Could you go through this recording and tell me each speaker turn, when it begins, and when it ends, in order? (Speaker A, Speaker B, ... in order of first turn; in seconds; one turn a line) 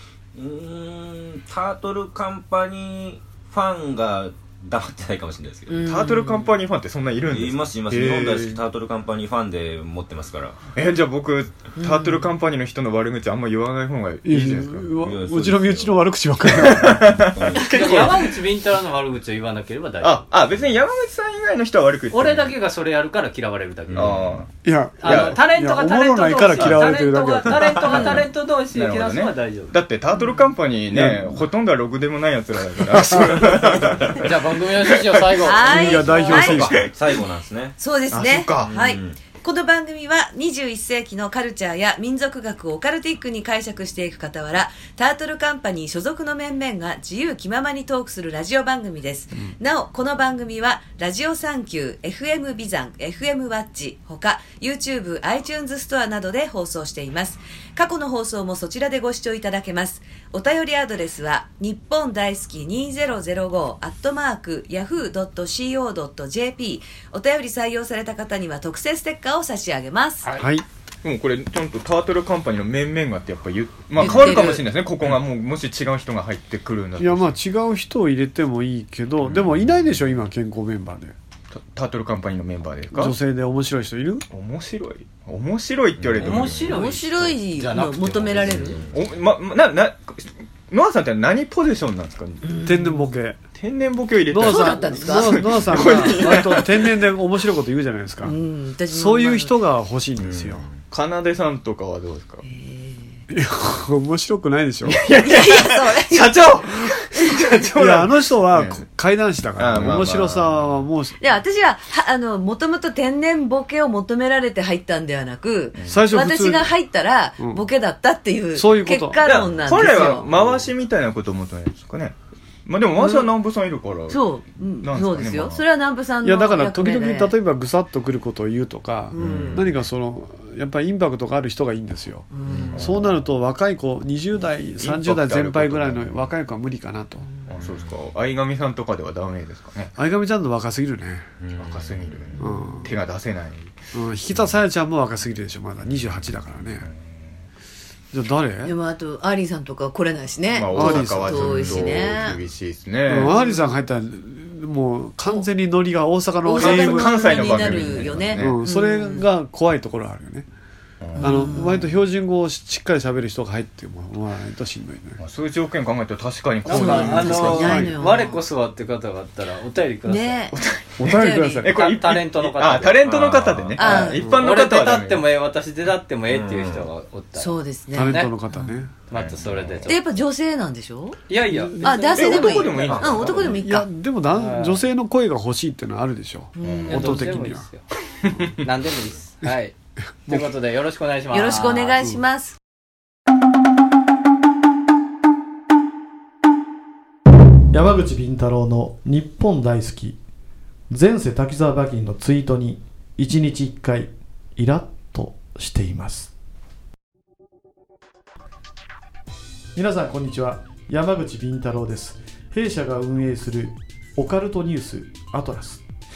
Speaker A: 0.3-5.9
Speaker B: 5.7-6.5
Speaker C: 5.8-8.6
Speaker A: 7.3-10.6
Speaker C: 10.7-14.9
Speaker B: 11.8-12.3
Speaker D: 14.2-17.0
Speaker A: 15.0-16.1
Speaker C: 16.4-18.3
Speaker A: 16.7-18.1
Speaker E: 17.7-20.2
Speaker C: 20.0-22.5
Speaker E: 22.1-24.2
Speaker A: 23.9-24.4
Speaker C: 23.9-24.5
Speaker D: 24.6-27.8
Speaker E: 25.0-29.7
Speaker C: 25.0-25.4
Speaker B: 27.9-28.2
Speaker C: 27.9-35.6
Speaker B: 30.1-30.4
Speaker D: 30.9-31.4
Speaker D: 32.9-33.5
Speaker E: 34.2-36.3
Speaker F: 35.5-36.5
Speaker B: 35.5-36.2
Speaker D: 35.7-36.8
Speaker A: 35.7-37.8
Speaker C: 36.3-36.9
Speaker F: 37.8-70.4
Speaker C: 38.1-38.8
Speaker A: 38.6-39.2
Speaker D: 70.4-70.7
Speaker C: 71.0-77.4
Speaker B: 74.0-74.7
Speaker D: 77.0-81.1
Speaker C: 81.5-83.2
Speaker D: 82.9-84.2
Speaker C: 84.3-86.7
Speaker A: 86.0-86.8
Speaker E: 86.2-88.8
Speaker B: 86.7-88.8
Speaker A: 88.5-89.1
Speaker C: 88.9-92.4
Speaker B: 92.4-93.1
Speaker D: 92.6-93.4
Speaker C: 93.5-96.7
Speaker D: 94.3-98.3
Speaker B: 94.4-96.2
Speaker B: 98.2-99.5
Speaker D: 98.9-100.6
Speaker A: 100.2-100.8
Speaker C: 100.9-102.4
Speaker B: 102.4-103.2
Speaker D: 103.3-105.0
Speaker C: 104.8-108.8
Speaker B: 105.2-106.5
Speaker D: 107.8-111.2
Speaker C: 109.6-110.6
Speaker B: 111.2-120.3
Speaker C: 115.8-116.0
Speaker D: 115.9-116.7
Speaker D: 117.4-117.6
Speaker D: 118.5-119.2
Speaker C: 119.2-124.2
Speaker B: 122.9-123.3
Speaker B: 124.1-127.3
Speaker C: 124.8-125.6
Speaker D: 126.2-137.3
Speaker B: 129.1-129.7
Speaker C: 129.1-129.6
Speaker B: 132.3-132.8
Speaker A: 132.5-132.9
Speaker C: 132.7-133.1
Speaker C: 134.8-136.2
Speaker B: 137.2-137.5
Speaker C: 137.5-139.9
Speaker A: 137.6-137.9
Speaker D: 139.9-141.3
Speaker A: 141.4-142.4
Speaker C: 141.6-143.7
Speaker D: 142.4-142.9
Speaker D: 143.9-146.9
Speaker D: 148.1-148.7
Speaker B: 148.6-152.4
Speaker C: 150.5-153.3
Speaker D: 150.7-151.8
Speaker A: 151.4-152.1
Speaker D: 153.1-160.5
Speaker B: 153.2-153.8
Speaker B: 156.4-159.3
Speaker C: 156.6-158.6
Speaker C: 161.0-161.5
Speaker B: 161.2-161.9
Speaker D: 161.2-165.2
Speaker C: 165.2-167.9
Speaker E: 166.6-170.4
Speaker B: 166.7-168.4
Speaker D: 167.5-167.9
Speaker B: 170.0-171.6
Speaker C: 170.5-175.2
Speaker D: 171.0-171.7
Speaker E: 171.7-173.0
Speaker A: 173.0-174.1
Speaker B: 173.8-174.3
Speaker E: 173.9-178.3
Speaker A: 176.3-176.9
Speaker B: 177.3-178.8
Speaker D: 177.9-178.9
Speaker E: 179.1-180.0
Speaker A: 179.1-180.0
Speaker B: 179.9-181.2
Speaker E: 181.3-183.2
Speaker D: 181.5-182.1
Speaker B: 181.8-183.9
Speaker C: 182.1-183.5
Speaker A: 182.8-183.4
Speaker D: 183.2-187.7
Speaker E: 184.3-184.8
Speaker B: 186.5-187.1
Speaker C: 186.6-187.0
Speaker E: 186.8-187.9
Speaker E: 188.6-189.7
Speaker E: 190.3-192.0
Speaker B: 191.3-192.6
Speaker G: 197.7-200.2
Speaker G: 200.9-206.3
Speaker G: 209.7-215.8